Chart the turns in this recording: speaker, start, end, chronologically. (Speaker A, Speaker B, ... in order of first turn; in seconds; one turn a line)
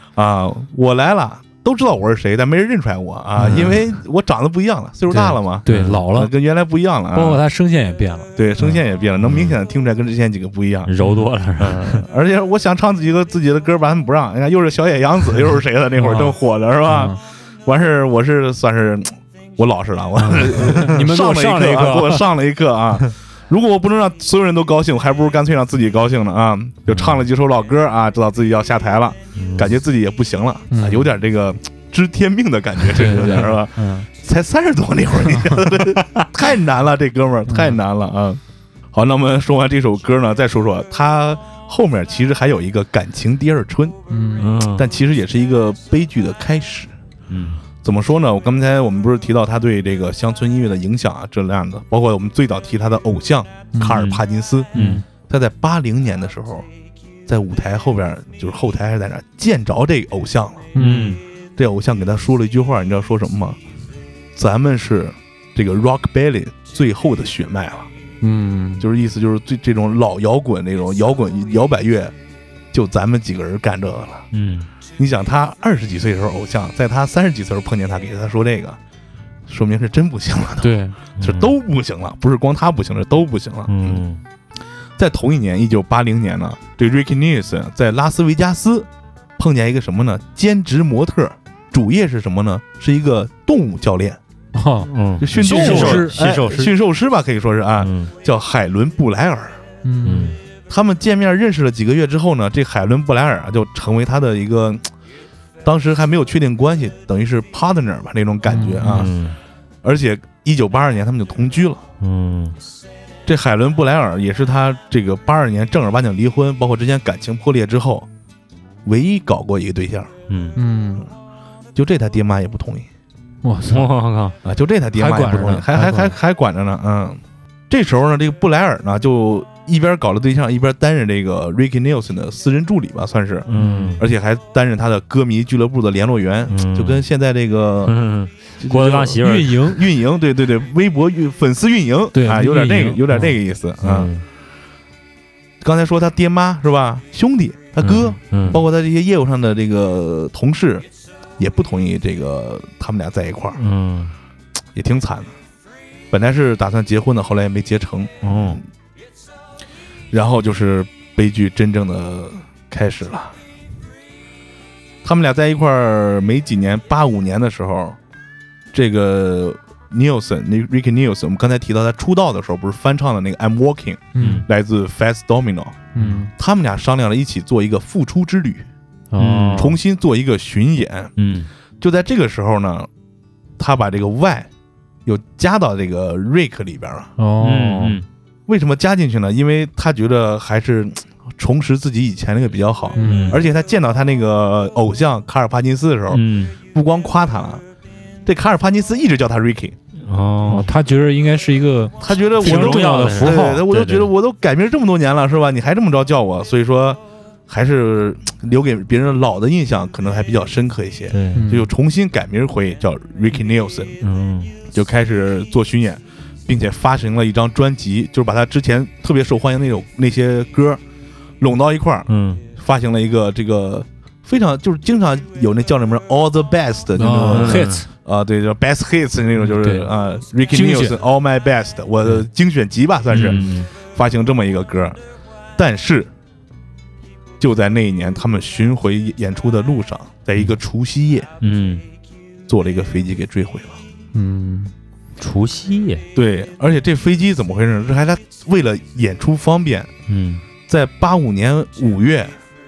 Speaker A: 0.1-7.4
Speaker B: 3.4-3.8
Speaker C: 5.1-6.3
Speaker B: 5.7-6.0
Speaker C: 7.1-8.8
Speaker A: 8.3-10.9
Speaker B: 9.2-9.6
Speaker B: 10.8-12.0
Speaker C: 11.0-11.2
Speaker A: 11.6-38.4
Speaker C: 15.9-17.2
Speaker B: 20.2-20.6
Speaker C: 20.4-22.3
Speaker B: 26.9-27.2
Speaker B: 29.4-29.7
Speaker C: 30.7-31.1
Speaker C: 32.9-34.0
Speaker C: 37.5-37.8
Speaker A: 38.9-44.0
Speaker C: 44.1-44.5
Speaker B: 44.4-44.8
Speaker A: 44.7-46.9
Speaker B: 47.3-47.6
Speaker A: 47.8-56.7
Speaker C: 53.7-54.1
Speaker B: 53.9-54.2
Speaker C: 54.7-55.0
Speaker B: 54.7-55.0
Speaker A: 57.2-60.7
Speaker C: 60.7-61.2
Speaker B: 60.8-61.2
Speaker A: 61.6-63.6
Speaker A: 64.3-67.9
Speaker C: 68.2-68.8
Speaker A: 68.8-72.1
Speaker A: 72.7-74.3
Speaker B: 74.3-74.7
Speaker A: 75.0-78.8
Speaker A: 79.5-84.0
Speaker C: 80.6-81.0
Speaker B: 81.2-81.5
Speaker B: 83.7-84.2
Speaker A: 85.0-94.2
Speaker C: 94.5-96.5
Speaker B: 94.8-96.7
Speaker A: 95.2-99.6
Speaker B: 97.8-98.1
Speaker C: 99.8-100.3
Speaker B: 100.0-100.4
Speaker A: 100.7-104.9
Speaker A: 105.6-109.1
Speaker C: 108.5-109.1
Speaker B: 108.9-109.3
Speaker A: 109.8-111.8
Speaker B: 112.0-112.6
Speaker A: 113.2-118.1
Speaker A: 118.8-120.1
Speaker B: 120.3-120.5
Speaker C: 120.5-121.1
Speaker A: 121.7-122.9
Speaker C: 123.4-124.0
Speaker B: 123.7-124.3
Speaker A: 124.4-137.9
Speaker C: 124.9-126.1
Speaker B: 133.5-134.0
Speaker C: 133.6-134.0
Speaker B: 136.5-137.0
Speaker B: 137.8-139.7
Speaker A: 138.6-144.1
Speaker C: 139.2-139.8
Speaker C: 142.1-143.3
Speaker B: 143.8-144.2
Speaker A: 145.6-150.8
Speaker B: 147.8-148.6
Speaker A: 151.4-153.6
Speaker B: 153.6-154.1
Speaker A: 154.7-155.3
Speaker A: 156.1-158.6
Speaker B: 158.2-158.6
Speaker A: 160.1-163.3
Speaker A: 165.0-168.0
Speaker A: 168.7-178.7
Speaker C: 174.1-174.4
Speaker B: 174.2-174.4
Speaker C: 175.9-176.3
Speaker C: 179.1-179.8
Speaker B: 179.2-179.7
Speaker A: 179.5-181.1
Speaker B: 181.2-181.5
Speaker A: 181.8-182.9
Speaker A: 183.6-184.5
Speaker A: 185.1-187.1
Speaker C: 187.2-188.0
Speaker B: 187.4-188.0
Speaker A: 188.5-197.6
Speaker C: 192.9-193.4
Speaker B: 193.0-193.4
Speaker B: 196.1-196.6
Speaker A: 198.2-199.8
Speaker B: 200.0-200.7
Speaker C: 200.4-203.6
Speaker A: 202.0-214.0
Speaker B: 202.4-204.1
Speaker B: 211.1-211.4
Speaker C: 211.3-211.7
Speaker B: 214.0-214.5
Speaker A: 214.7-220.8
Speaker A: 221.4-235.0
Speaker B: 222.1-222.4
Speaker C: 227.0-227.9
Speaker B: 227.3-227.8
Speaker C: 229.5-229.9
Speaker C: 230.5-231.0
Speaker B: 233.1-233.7
Speaker A: 235.6-236.1
Speaker A: 237.4-241.3
Speaker B: 241.4-241.8
Speaker A: 242.5-243.8
Speaker C: 244.1-244.7
Speaker B: 245.2-246.0
Speaker A: 246.1-249.9
Speaker B: 250.1-250.4
Speaker A: 250.6-252.3